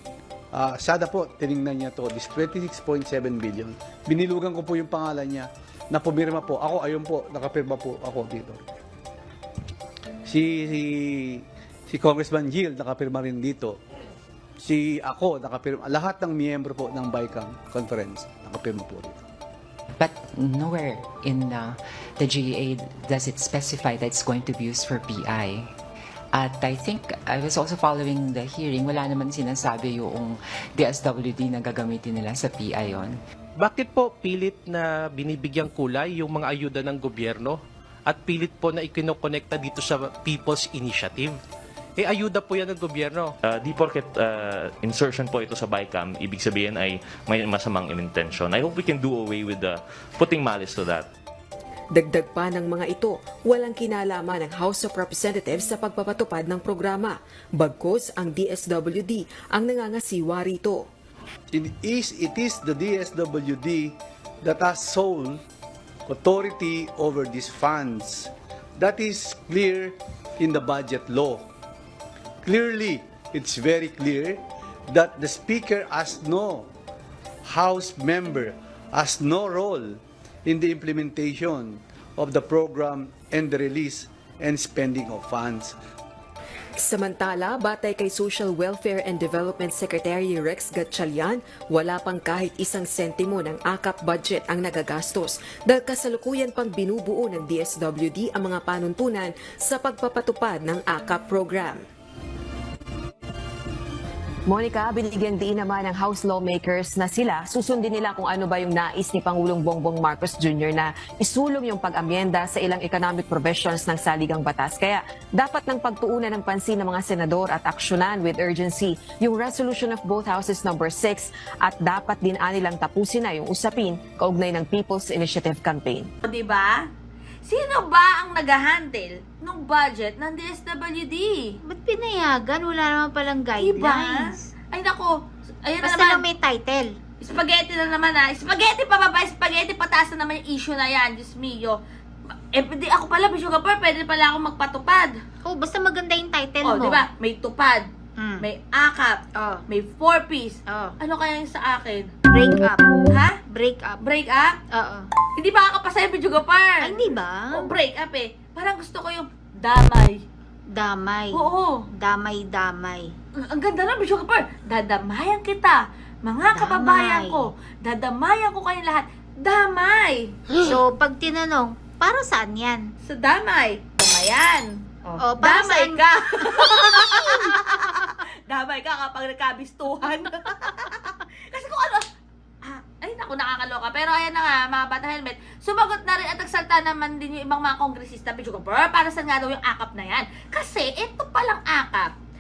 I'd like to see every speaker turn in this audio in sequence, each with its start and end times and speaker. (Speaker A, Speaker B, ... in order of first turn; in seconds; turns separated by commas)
Speaker A: 0.5-8.6, Speaker A: 10.3-13.8, Speaker A: 14.6-19.2, Speaker B: 20.0-25.7, Speaker B: 26.3-33.2, Speaker C: 33.6-41.4, Speaker C: 42.0-43.3, Speaker D: 43.4-51.1, Speaker E: 52.0-60.9, Speaker A: 61.5-65.4, Speaker A: 66.1-71.4, Speaker A: 72.4-76.7, Speaker A: 77.5-85.8, Speaker E: 86.8-101.8, Speaker E: 104.5-126.1, Speaker F: 126.2-126.8, Speaker F: 127.5-131.6, Speaker G: 131.6-134.5, Speaker F: 133.6-135.1, Speaker F: 135.7-136.2, Speaker G: 135.8-136.9, Speaker F: 137.2-141.8, Speaker F: 142.5-145.1, Speaker G: 145.4-147.1, Speaker F: 146.6-147.9, Speaker G: 148.2-148.4, Speaker F: 148.4-149.2, Speaker F: 149.7-152.1, Speaker G: 150.7-150.9, Speaker G: 152.3-152.9, Speaker G: 153.5-154.0, Speaker F: 154.0-154.6, Speaker G: 154.7-155.1, Speaker F: 155.4-156.9, Speaker G: 156.8-157.7, Speaker F: 157.5-160.2, Speaker G: 160.7-161.5, Speaker F: 161.3-161.8, Speaker G: 162.0-163.1, Speaker F: 163.5-170.3, Speaker G: 166.5-167.4, Speaker G: 170.6-172.8, Speaker F: 173.1-182.1, Speaker G: 175.2-178.1, Speaker F: 182.6-192.1